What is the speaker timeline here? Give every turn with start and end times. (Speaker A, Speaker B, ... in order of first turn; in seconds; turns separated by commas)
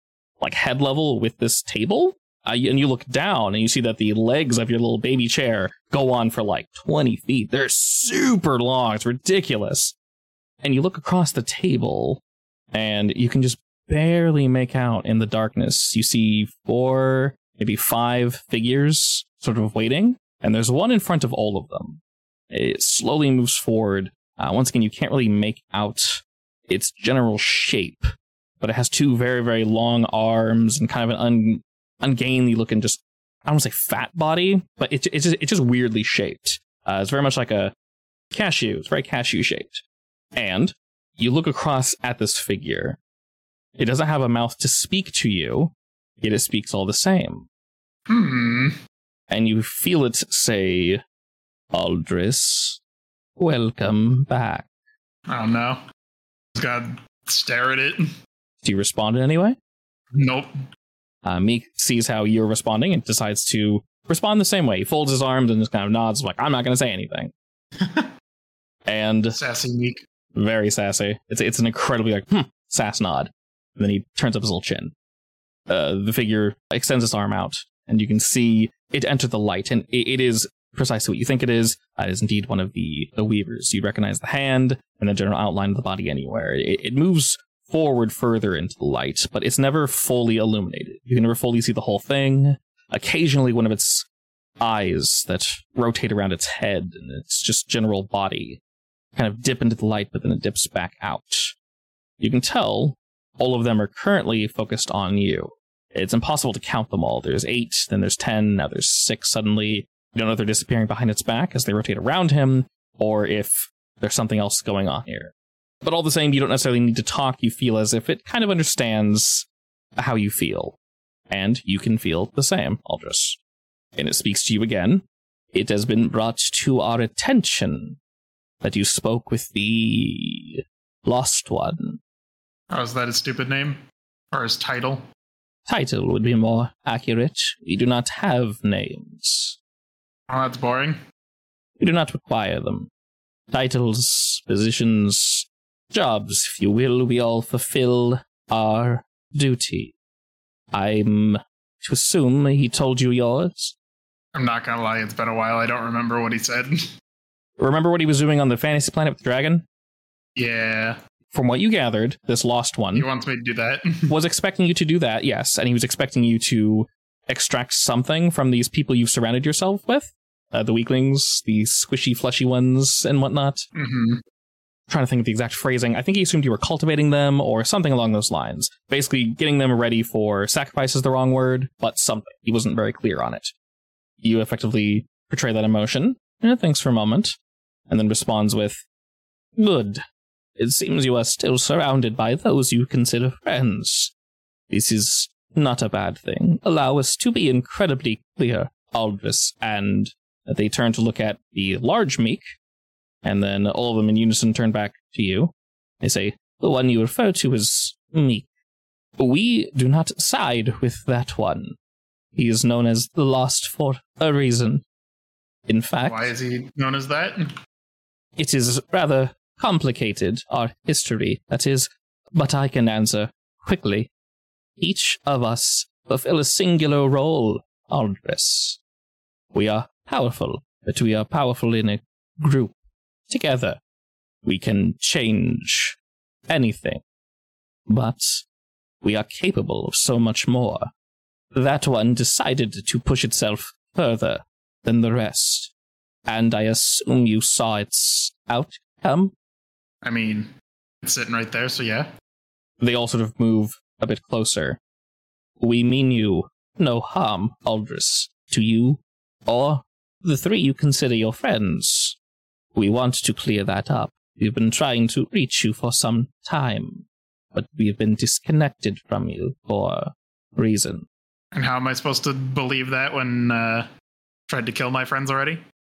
Speaker A: 0.4-9.9, Speaker A: 10.6-12.2, Speaker A: 12.7-22.0, Speaker A: 22.5-28.1, Speaker A: 28.6-37.7, Speaker A: 38.3-39.8, Speaker A: 40.4-43.0, Speaker A: 43.8-47.5, Speaker B: 48.1-48.8, Speaker A: 49.3-51.0, Speaker A: 51.7-52.8, Speaker A: 53.4-54.7, Speaker B: 55.3-55.8, Speaker B: 56.6-58.0, Speaker A: 58.6-59.6, Speaker B: 60.1-60.5, Speaker A: 61.2-67.3, Speaker B: 67.8-68.1, Speaker A: 68.9-69.4, Speaker B: 69.3-70.0, Speaker A: 70.3-74.9, Speaker A: 75.7-94.1, Speaker A: 94.6-98.6, Speaker A: 99.2-101.5, Speaker A: 102.2-119.5, Speaker A: 120.0-120.8, Speaker A: 121.3-123.4, Speaker A: 124.0-128.0, Speaker A: 128.6-132.0, Speaker B: 132.7-133.8, Speaker B: 134.3-135.0, Speaker A: 135.7-139.6, Speaker B: 140.3-141.0, Speaker A: 141.8-142.9, Speaker A: 143.5-149.9, Speaker A: 150.7-153.7, Speaker B: 154.3-156.8, Speaker A: 157.6-159.7, Speaker B: 160.4-161.0, Speaker A: 161.3-163.1, Speaker B: 162.9-164.2, Speaker A: 164.1-173.7, Speaker B: 173.8-174.2, Speaker A: 174.9-183.5, Speaker A: 184.2-187.4, Speaker A: 187.9-188.8, Speaker A: 189.6-190.0, Speaker A: 190.6-194.1, Speaker A: 194.7-202.4, Speaker A: 203.2-208.5, Speaker A: 209.2-211.8, Speaker A: 212.3-214.8, Speaker A: 215.7-216.3, Speaker B: 216.1-217.4, Speaker A: 218.4-224.1, Speaker A: 224.8-228.8, Speaker A: 229.5-232.7, Speaker A: 233.3-233.8, Speaker A: 234.4-236.0, Speaker A: 236.5-237.0, Speaker A: 237.9-238.4, Speaker A: 239.0-240.9, Speaker A: 241.5-245.7, Speaker A: 246.3-249.3, Speaker B: 250.0-250.5, Speaker B: 251.0-252.1, Speaker A: 252.8-254.8, Speaker A: 255.6-262.2, Speaker A: 262.8-271.1, Speaker B: 271.5-273.9, Speaker B: 274.5-275.6